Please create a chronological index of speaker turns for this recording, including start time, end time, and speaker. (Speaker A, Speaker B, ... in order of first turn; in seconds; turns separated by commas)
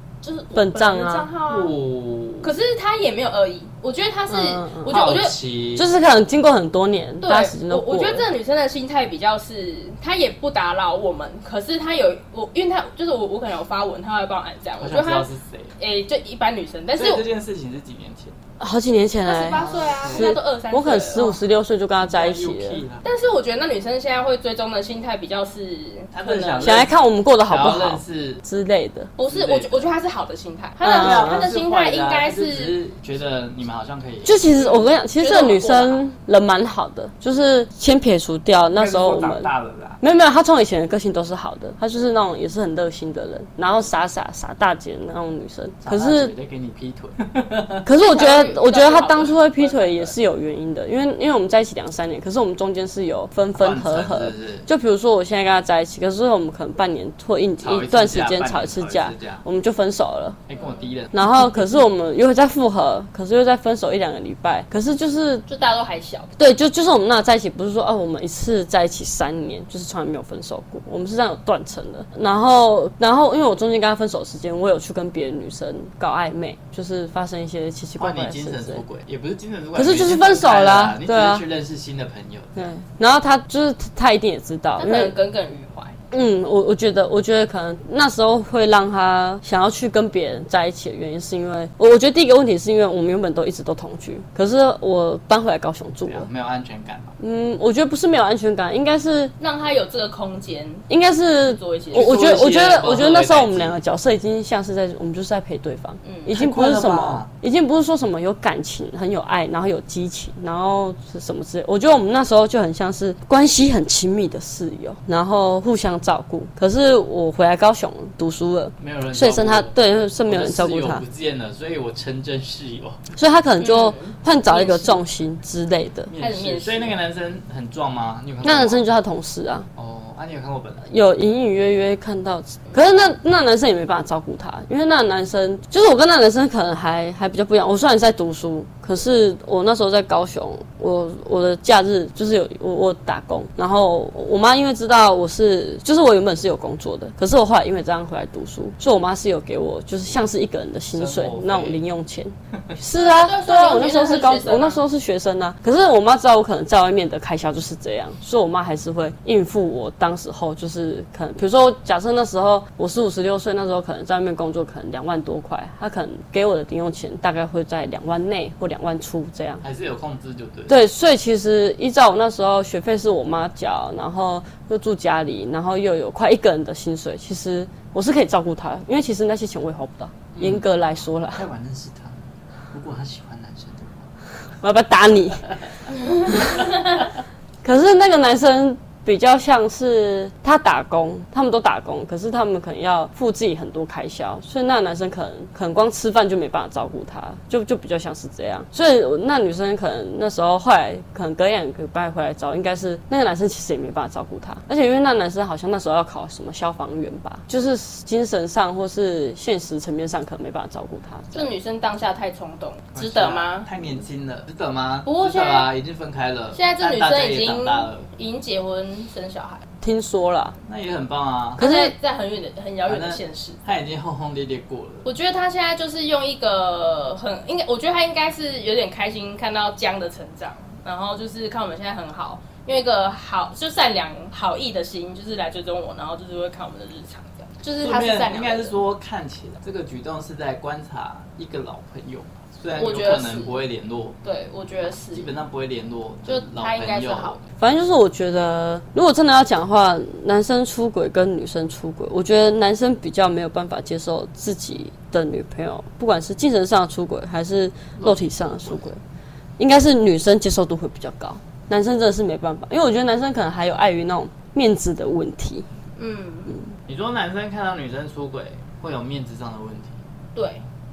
Speaker A: 0.2-1.7, Speaker B: 0.5-1.3, Speaker C: 1.5-2.5, Speaker A: 2.4-5.3, Speaker B: 4.3-5.0, Speaker C: 4.9-5.9, Speaker B: 5.7-8.2, Speaker A: 7.2-15.3, Speaker C: 14.8-15.7, Speaker A: 15.8-17.2, Speaker C: 16.9-18.4, Speaker B: 18.6-22.8, Speaker A: 19.2-21.4, Speaker C: 19.5-20.4, Speaker C: 22.0-23.0, Speaker A: 23.0-26.8, Speaker C: 26.1-26.9, Speaker B: 26.6-29.1, Speaker C: 27.4-28.4, Speaker A: 29.2-32.8, Speaker C: 29.2-29.9, Speaker B: 30.8-31.4, Speaker C: 30.8-34.4, Speaker B: 34.2-39.5, Speaker A: 34.5-36.0, Speaker C: 38.7-40.0, Speaker B: 40.0-46.3, Speaker C: 45.8-47.9, Speaker B: 47.8-60.4, Speaker A: 48.0-50.1, Speaker C: 53.5-54.7, Speaker C: 57.6-59.4, Speaker C: 60.5-61.1, Speaker A: 60.5-60.9, Speaker B: 61.1-65.4, Speaker A: 65.5-66.4, Speaker B: 66.4-78.8, Speaker C: 78.0-82.7, Speaker B: 79.8-81.4, Speaker B: 82.5-85.1, Speaker A: 84.8-86.0, Speaker B: 86.1-96.3, Speaker C: 96.0-97.2, Speaker B: 97.2-99.3, Speaker A: 99.4-100.9, Speaker B: 100.9-121.0, Speaker A: 101.4-102.1, Speaker C: 101.9-103.8, Speaker A: 106.0-106.3, Speaker C: 106.3-107.3, Speaker C: 118.8-123.1, Speaker B: 123.2-126.1, Speaker A: 123.6-125.0, Speaker C: 126.1-128.8, Speaker A: 126.2-127.0, Speaker B: 128.4-129.7, Speaker C: 129.8-130.9, Speaker B: 130.9-169.6, Speaker C: 150.9-151.8, Speaker A: 153.0-154.8, Speaker C: 169.6-170.8, Speaker B: 170.7-181.4, Speaker C: 180.3-180.7, Speaker C: 181.3-182.2, Speaker C: 182.7-184.1, Speaker B: 184.6-185.5, Speaker B: 187.6-211.5, Speaker A: 211.3-213.7, Speaker C: 212.9-218.1, Speaker A: 215.0-215.7, Speaker A: 216.5-219.6, Speaker B: 219.8-220.6, Speaker C: 220.7-221.7, Speaker A: 221.6-223.6, Speaker B: 221.6-221.9, Speaker C: 222.9-225.1, Speaker A: 225.0-238.8, Speaker C: 237.8-244.2, Speaker A: 242.7-243.6, Speaker A: 244.2-245.3, Speaker C: 245.1-247.5, Speaker A: 246.2-247.4, Speaker B: 247.6-259.0, Speaker C: 258.0-258.9, Speaker B: 259.6-265.6, Speaker A: 266.0-266.6, Speaker C: 266.9-270.0, Speaker A: 270.3-270.6